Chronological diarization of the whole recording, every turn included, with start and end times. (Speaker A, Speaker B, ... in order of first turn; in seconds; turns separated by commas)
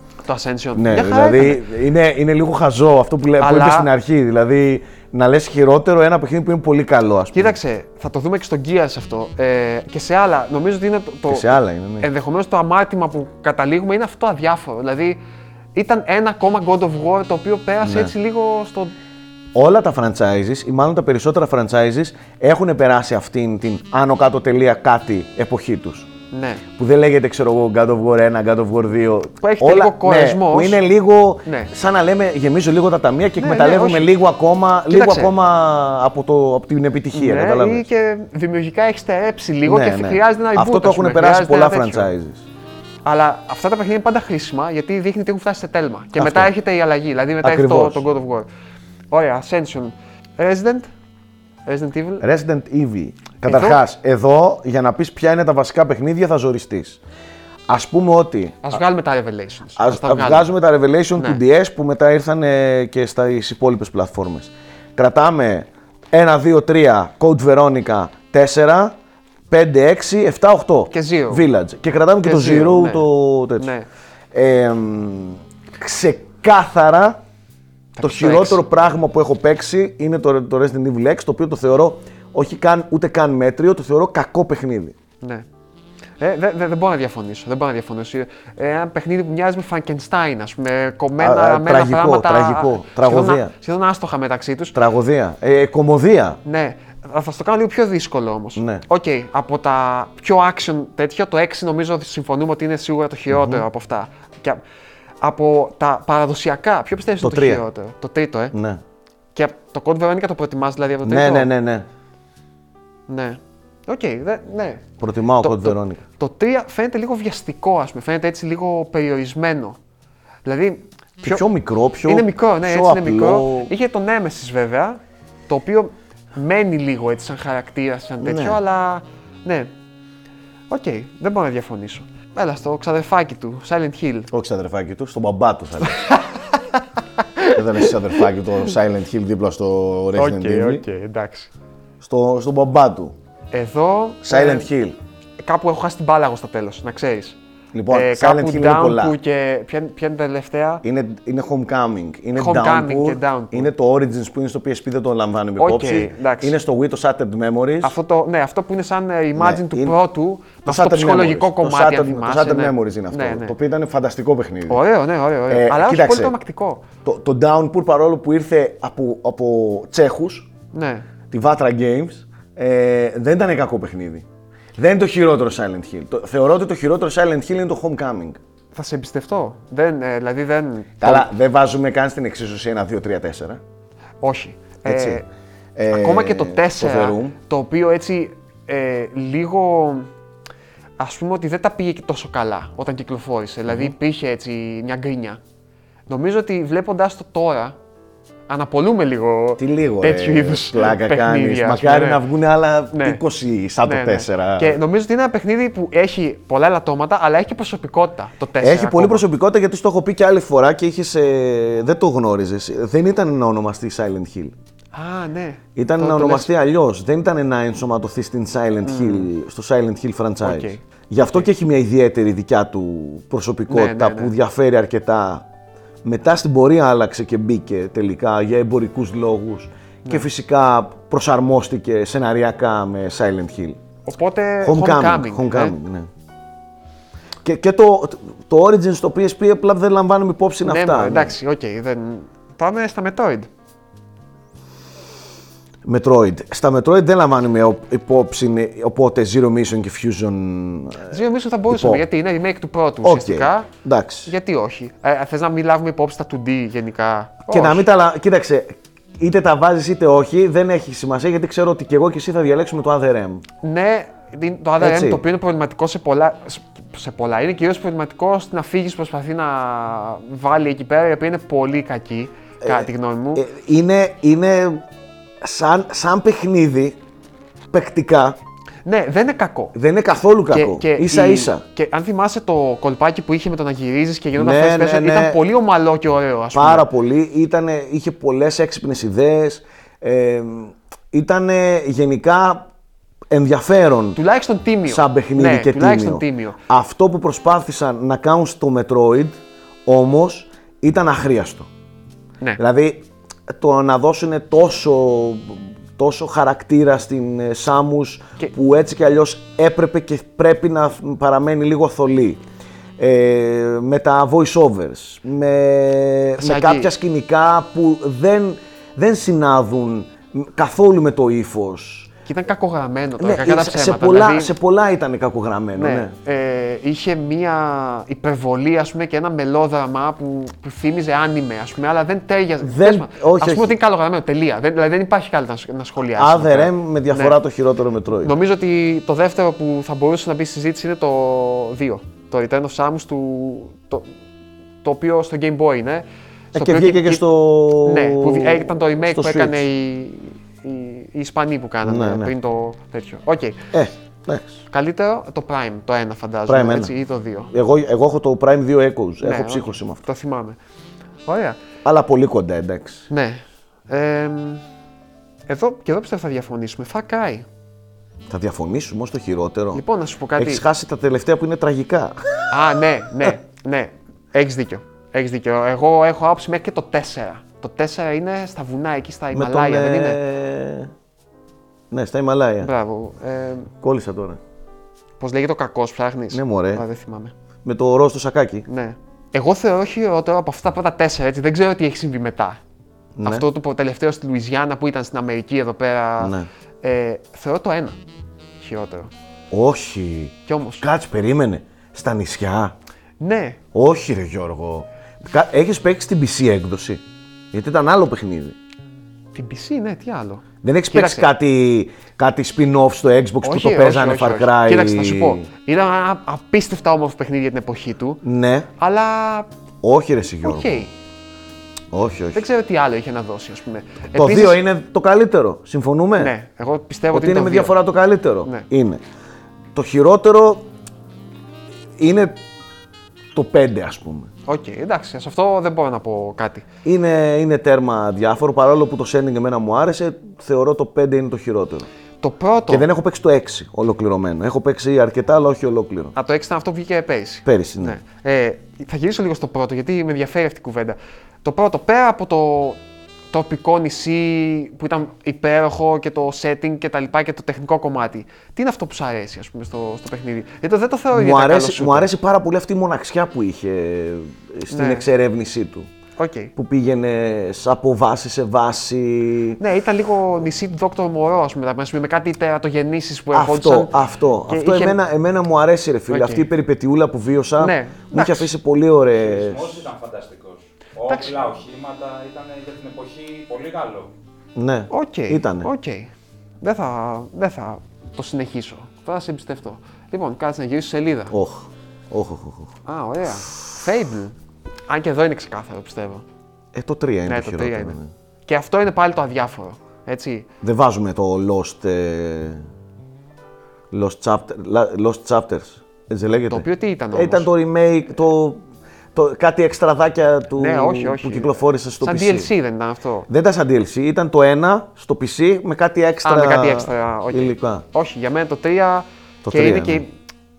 Speaker A: 0.2-1.6, Speaker B: 0.8-7.6, Speaker A: 3.4-3.9, Speaker A: 7.3-15.2, Speaker B: 11.3-12.1, Speaker A: 15.8-18.9, Speaker B: 17.8-18.1, Speaker B: 19.6-26.1, Speaker A: 26.3-26.6, Speaker B: 26.8-37.9, Speaker A: 29.4-30.8, Speaker A: 31.4-31.7, Speaker A: 33.4-34.1, Speaker A: 34.9-35.3, Speaker A: 37.1-42.1, Speaker B: 39.7-42.5, Speaker A: 43.0-48.5, Speaker B: 46.2-46.5, Speaker B: 47.4-48.0, Speaker A: 49.1-50.9, Speaker A: 51.7-52.2, Speaker B: 52.2-57.0, Speaker A: 53.4-53.8, Speaker B: 57.7-58.8, Speaker A: 58.6-60.5, Speaker B: 59.8-69.0, Speaker B: 69.5-73.7, Speaker A: 70.9-71.5, Speaker A: 72.2-73.1, Speaker A: 73.6-73.9, Speaker B: 74.3-77.2, Speaker A: 78.0-78.6, Speaker B: 78.0-85.0, Speaker A: 86.2-94.8, Speaker B: 91.2-93.5, Speaker B: 94.8-96.4, Speaker A: 96.5-104.6, Speaker B: 98.6-98.8, Speaker B: 103.3-103.7, Speaker A: 105.2-108.5, Speaker B: 107.2-107.6, Speaker B: 108.5-108.8, Speaker A: 109.3-111.5, Speaker B: 111.0-111.9, Speaker A: 113.1-114.8, Speaker B: 115.0-116.0, Speaker A: 115.4-119.8, Speaker A: 120.5-121.4, Speaker B: 121.2-123.7, Speaker A: 122.0-129.7, Speaker B: 128.2-128.6, Speaker A: 130.7-134.3, Speaker B: 134.3-136.0, Speaker A: 135.8-137.9, Speaker B: 137.5-140.8, Speaker A: 140.2-141.5, Speaker B: 142.0-143.1, Speaker A: 143.5-144.7, Speaker B: 144.2-145.0, Speaker A: 145.4-147.4, Speaker B: 147.7-149.2, Speaker A: 147.9-150.8, Speaker B: 150.8-158.0, Speaker A: 152.3-153.7, Speaker A: 155.6-156.6, Speaker A: 157.8-163.6, Speaker B: 159.4-160.0, Speaker B: 160.7-164.8, Speaker A: 164.7-166.8, Speaker B: 165.5-166.3, Speaker B: 167.1-170.5, Speaker A: 170.7-171.1, Speaker B: 171.3-174.2, Speaker B: 174.8-178.4, Speaker A: 178.8-181.3, Speaker B: 181.0-183.6, Speaker A: 184.2-185.2, Speaker B: 184.8-185.2, Speaker B: 185.8-187.4, Speaker A: 185.9-190.1, Speaker A: 191.0-195.4, Speaker B: 193.7-193.9, Speaker A: 196.1-197.8, Speaker A: 198.5-202.2, Speaker B: 199.6-204.8, Speaker A: 202.9-203.2, Speaker A: 203.8-209.2, Speaker B: 208.6-214.6, Speaker A: 214.9-216.5, Speaker B: 215.8-225.5, Speaker A: 218.8-219.3, Speaker A: 220.4-221.5, Speaker A: 223.7-224.3, Speaker B: 226.0-233.8, Speaker A: 234.1-235.8, Speaker B: 234.6-236.1, Speaker B: 237.4-241.3, Speaker A: 240.6-243.5, Speaker B: 245.8-251.2, Speaker A: 251.1-253.7, Speaker B: 251.7-252.0, Speaker B: 253.0-254.3, Speaker A: 254.3-257.9, Speaker B: 257.5-263.4, Speaker A: 263.6-273.5, Speaker B: 264.8-265.2, Speaker B: 272.6-274.8, Speaker B: 275.4-277.0, Speaker B: 277.7-278.4, Speaker A: 278.9-279.8, Speaker B: 279.7-281.6, Speaker A: 280.5-286.9, Speaker B: 284.4-285.4, Speaker B: 286.5-292.7, Speaker B: 293.3-294.2, Speaker A: 294.2-296.6, Speaker B: 294.9-301.7, Speaker B: 302.6-312.4, Speaker B: 313.0-322.1, Speaker A: 316.4-316.9, Speaker A: 322.3-324.5, Speaker B: 323.2-326.1, Speaker A: 325.8-337.4, Speaker B: 332.6-333.8, Speaker B: 336.1-338.3, Speaker A: 338.2-344.1, Speaker A: 344.8-347.2, Speaker B: 346.5-349.6, Speaker A: 347.8-353.7, Speaker B: 351.8-352.3, Speaker B: 353.7-354.6, Speaker A: 354.7-357.5, Speaker B: 356.5-356.9, Speaker B: 357.5-360.0, Speaker A: 359.2-360.6, Speaker A: 361.3-361.6, Speaker B: 361.8-363.1, Speaker A: 363.1-364.6, Speaker A: 365.5-367.5, Speaker B: 368.3-369.8, Speaker A: 369.7-370.6, Speaker B: 370.4-372.5, Speaker A: 372.5-380.2, Speaker B: 379.3-380.9, Speaker B: 381.9-382.7, Speaker A: 382.6-383.7, Speaker B: 383.8-384.4, Speaker A: 385.2-387.3, Speaker B: 386.3-386.8, Speaker B: 387.6-388.7, Speaker A: 388.7-392.6, Speaker B: 393.2-393.5, Speaker A: 393.2-398.0, Speaker B: 396.2-396.5, Speaker A: 398.6-399.1, Speaker B: 399.5-402.8, Speaker A: 400.5-400.9, Speaker A: 403.2-403.6, Speaker B: 403.7-408.6, Speaker A: 409.4-411.3, Speaker B: 410.6-415.5, Speaker A: 413.4-418.2, Speaker B: 418.2-418.7, Speaker A: 418.8-419.5, Speaker B: 419.8-420.9, Speaker A: 420.4-420.9, Speaker B: 421.9-422.4, Speaker A: 422.3-424.6, Speaker B: 424.1-426.3, Speaker A: 426.2-427.8, Speaker B: 427.1-429.0, Speaker B: 429.8-430.7, Speaker B: 432.0-432.4, Speaker B: 433.3-434.3, Speaker A: 434.5-436.7, Speaker B: 436.8-441.9, Speaker A: 442.2-442.9, Speaker B: 442.7-446.1, Speaker A: 446.1-452.8, Speaker B: 447.4-448.0, Speaker A: 453.3-462.1, Speaker B: 461.1-465.9, Speaker A: 464.7-465.1, Speaker A: 466.2-466.5, Speaker B: 466.6-469.6, Speaker A: 469.6-474.0, Speaker B: 473.3-479.9, Speaker A: 474.5-475.0, Speaker A: 476.1-476.4, Speaker A: 477.6-478.5, Speaker C: 479.2-484.1, Speaker A: 481.1-481.4, Speaker B: 484.6-485.7, Speaker A: 484.9-491.4, Speaker B: 491.3-492.7, Speaker A: 492.9-494.4, Speaker A: 494.9-496.2, Speaker B: 496.7-498.1, Speaker A: 497.3-500.5, Speaker B: 500.6-502.6, Speaker B: 503.9-508.6, Speaker A: 506.5-507.5, Speaker B: 509.1-512.5, Speaker A: 510.6-513.3, Speaker B: 513.3-517.9, Speaker A: 516.2-520.1, Speaker B: 519.4-520.0